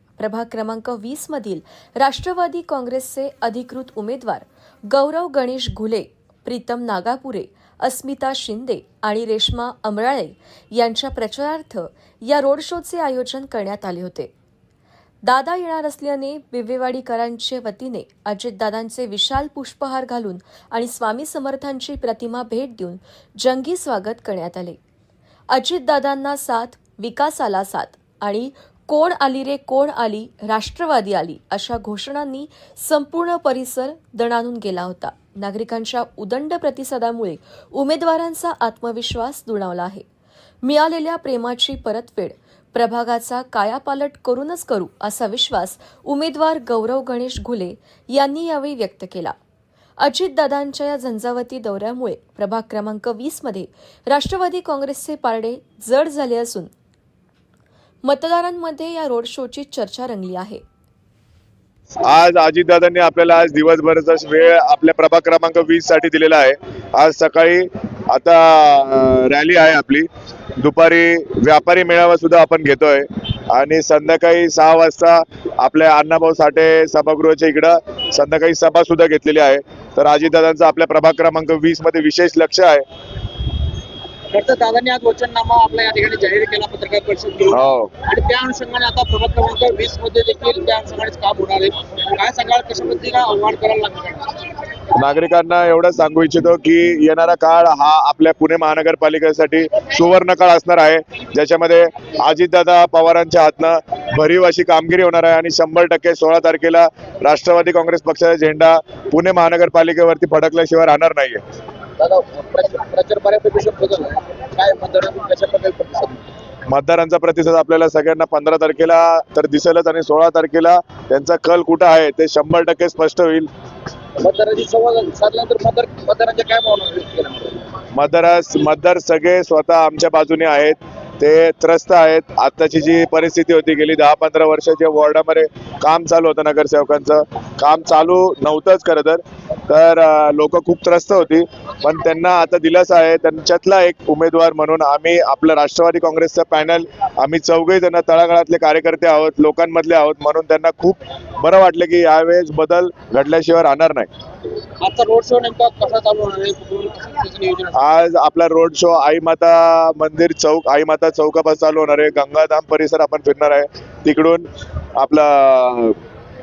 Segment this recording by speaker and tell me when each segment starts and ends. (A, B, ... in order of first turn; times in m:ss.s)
0:00.2-0:14.3 A
0:15.2-0:24.8 A
0:25.5-0:40.0 A
0:40.6-0:49.3 A
0:50.0-0:56.7 A
0:58.0-1:00.6 A
1:02.0-1:10.1 B
1:10.6-1:22.8 B
1:24.3-1:34.5 C
1:27.5-1:27.9 B
1:34.9-1:51.4 B
1:52.0-1:56.2 C
1:56.7-2:03.5 B
2:04.2-2:07.7 C
2:07.9-2:34.1 B
2:34.8-2:37.7 C
2:37.7-2:46.0 B